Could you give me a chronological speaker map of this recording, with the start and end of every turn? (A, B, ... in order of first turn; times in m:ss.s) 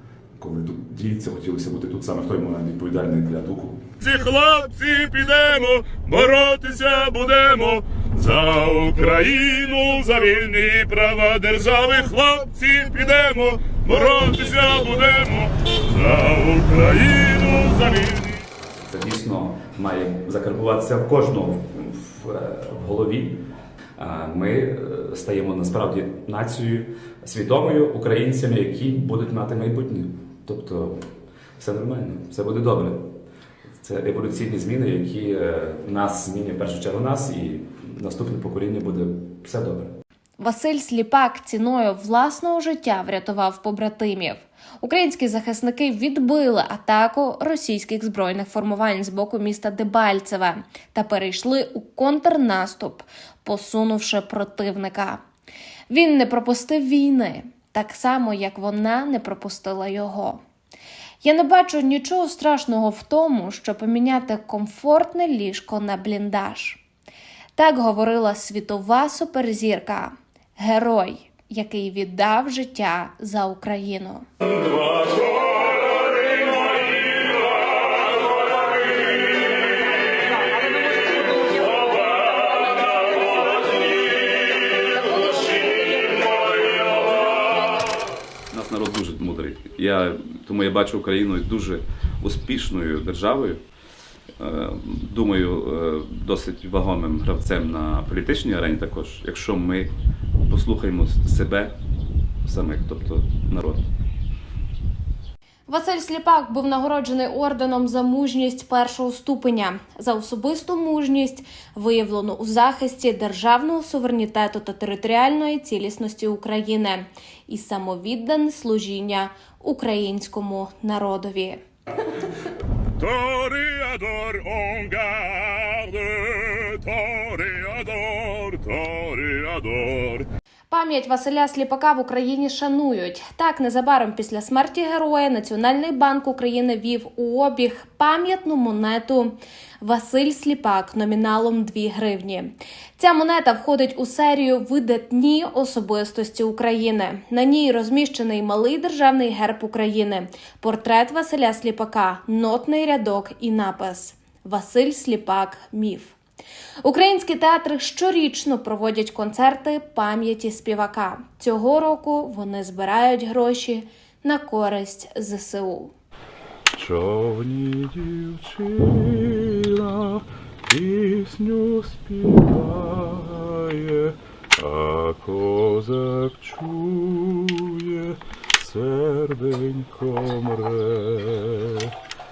0:00.4-0:03.9 A
0:04.0-0:18.4 B
0:18.6-0:23.4 C
0:24.0-0:31.0 C
0:31.6-0:33.0 C
0:33.8-0:39.9 C
0:40.4-0:55.2 D
0:55.9-1:00.4 D
1:01.2-1:06.8 D
1:07.6-1:14.2 D
1:28.5-1:33.6 C
1:34.4-1:39.9 C
1:40.5-1:41.7 C
1:42.4-1:43.8 C
1:45.7-2:01.6 D
2:03.0-2:10.3 B
2:10.7-2:36.2 D
2:36.8-2:45.9 D
2:46.7-3:01.9 E